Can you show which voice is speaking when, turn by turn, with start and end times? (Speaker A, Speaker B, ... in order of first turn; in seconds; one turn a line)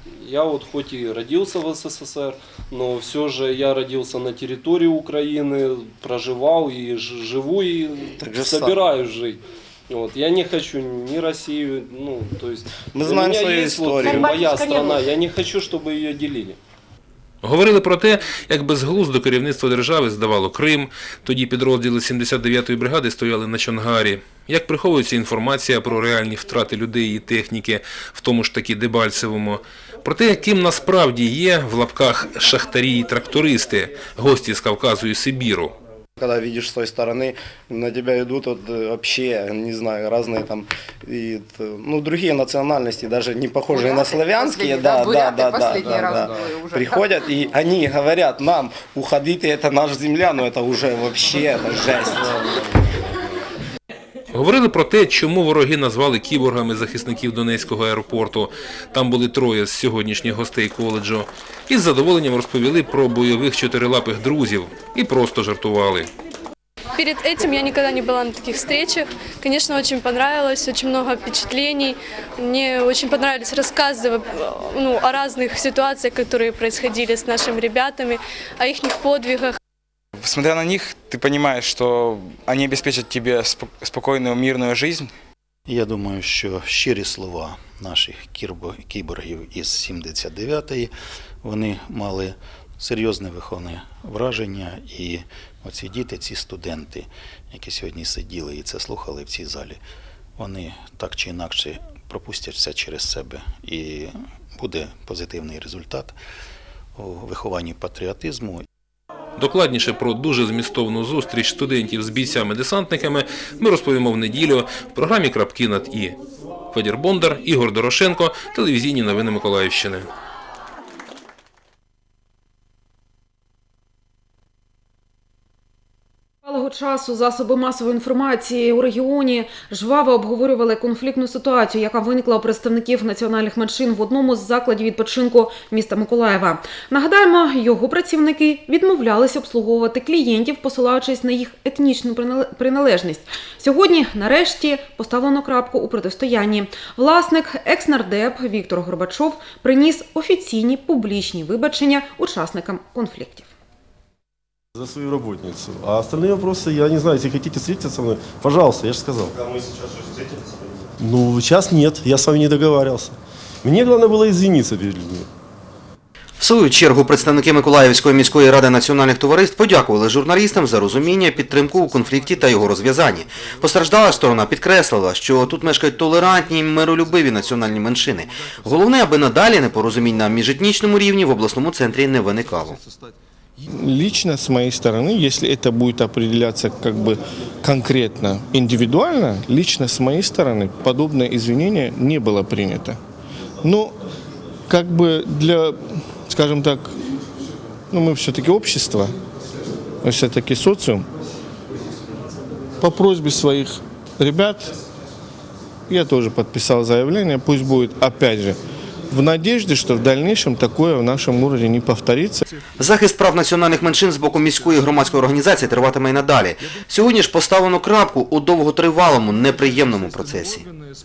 Speaker A: 0.2-16.6
Speaker B: 8.2-8.8
Speaker B: 12.8-15.0
Speaker C: 17.4-35.7
Speaker B: 36.2-52.6
Speaker C: 54.3-66.1
Speaker D: 67.0-79.6
Speaker E: 80.2-85.1
Speaker F: 85.7-90.9
Speaker F: 91.4-99.8
Speaker F: 100.4-106.2
Speaker F: 107.0-108.7
Speaker C: 109.4-116.2
Speaker C: 116.7-120.0
Speaker G: 126.5-153.5
Speaker H: 154.8-159.5
Speaker H: 160.9-165.3
Speaker I: 166.4-182.8
Speaker J: 183.7-193.0
Speaker J: 193.6-194.0
Speaker J: 194.7-197.0
Speaker J: 197.9-199.2
Speaker J: 200.0-201.1
Speaker J: 202.8-204.8
Speaker J: 205.9-208.6
Speaker J: 209.1-212.4
Speaker I: 212.8-220.7